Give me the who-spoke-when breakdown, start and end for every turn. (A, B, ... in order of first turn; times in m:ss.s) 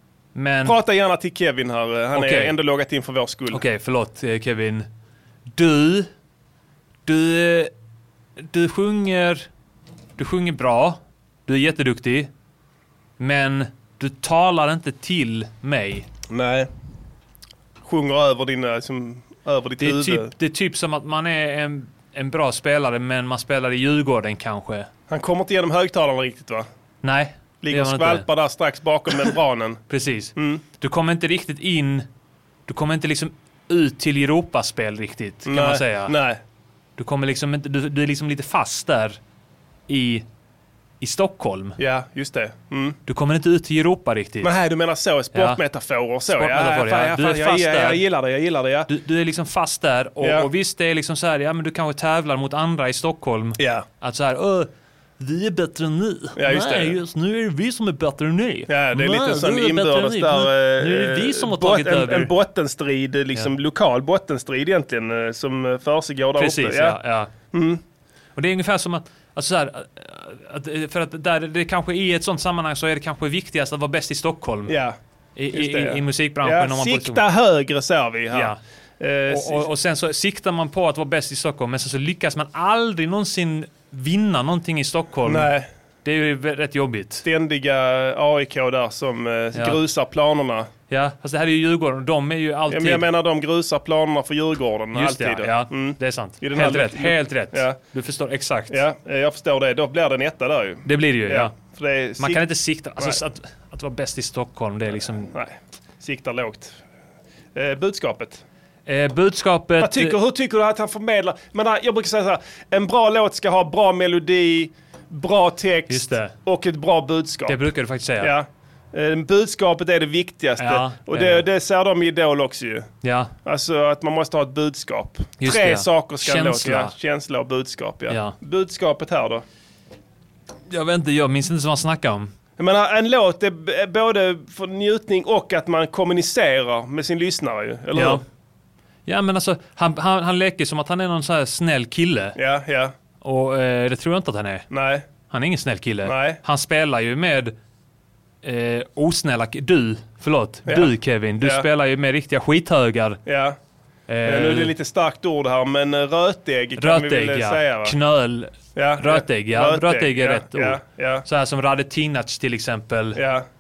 0:00.4-0:00.8 A
0:00.6-0:03.6 B
0:02.2-0:02.5 A
0:03.5-0:04.9 A
0:05.6-0:06.1 A
0:07.1-0:07.7 A
0:08.4-0:09.5 A
0:10.2-0:12.3 A
0:13.2-0:16.1 A
0:16.3-0:16.7 B
0:17.8-0:20.3 B
0:19.8-0:24.9 A
0:25.1-0:26.7 B
0:27.0-0:28.2 A
0:27.6-0:29.8 B
0:29.9-0:32.0 A
0:30.4-0:30.6 B
0:32.7-0:36.1 A
0:35.4-0:36.4 B
0:37.0-0:39.2 A
0:39.9-0:40.2 A
0:41.0-0:41.8 A
0:41.8-0:43.0 B
0:43.1-0:44.5 A
0:44.4-0:48.9 B
0:45.3-0:45.6 A
0:46.3-0:48.1 A
0:48.9-1:02.3 A
0:50.2-0:50.5 B
0:53.6-0:53.8 B
0:56.4-0:57.0 B
0:58.7-1:07.0 B
1:06.4-1:07.3 A
1:07.5-1:07.8 B
1:08.4-1:14.8 A
1:14.7-1:15.0 B
1:15.4-1:17.2 A
1:15.5-1:19.7 B
1:18.3-1:18.6 A
1:19.3-1:25.5 A
1:25.2-1:25.7 B
1:26.0-1:27.2 A
1:27.2-1:30.7 B
1:30.9-1:33.1 A
1:32.7-1:37.8 B
1:34.9-1:38.8 A
1:38.7-1:42.4 B
1:40.9-1:41.5 A
1:42.2-1:45.3 A
1:45.0-1:46.8 B
1:47.6-1:48.4 B
1:48.9-1:50.2 A
1:49.8-1:57.6 B
1:55.9-1:56.3 A
1:57.5-1:58.3 A
1:58.2-2:02.9 B
2:00.6-2:01.4 A
2:03.0-2:03.3 A
2:03.4-2:09.4 B
2:05.4-2:06.9 A
2:08.1-2:08.4 A
2:10.7-2:12.3 A
2:12.6-2:18.2 B
2:17.9-2:18.2 A
2:19.1-2:22.4 A
2:22.4-2:22.9 B
2:23.2-2:24.7 A
2:24.7-2:25.1 B
2:25.3-2:27.5 A
2:26.0-2:26.4 B
2:28.4-2:33.2 A
2:30.7-2:31.7 B
2:33.3-2:33.6 B
2:34.1-2:34.7 A
2:34.2-2:38.0 B
2:36.8-2:43.2 A
2:38.8-2:41.2 B
2:43.2-2:43.5 B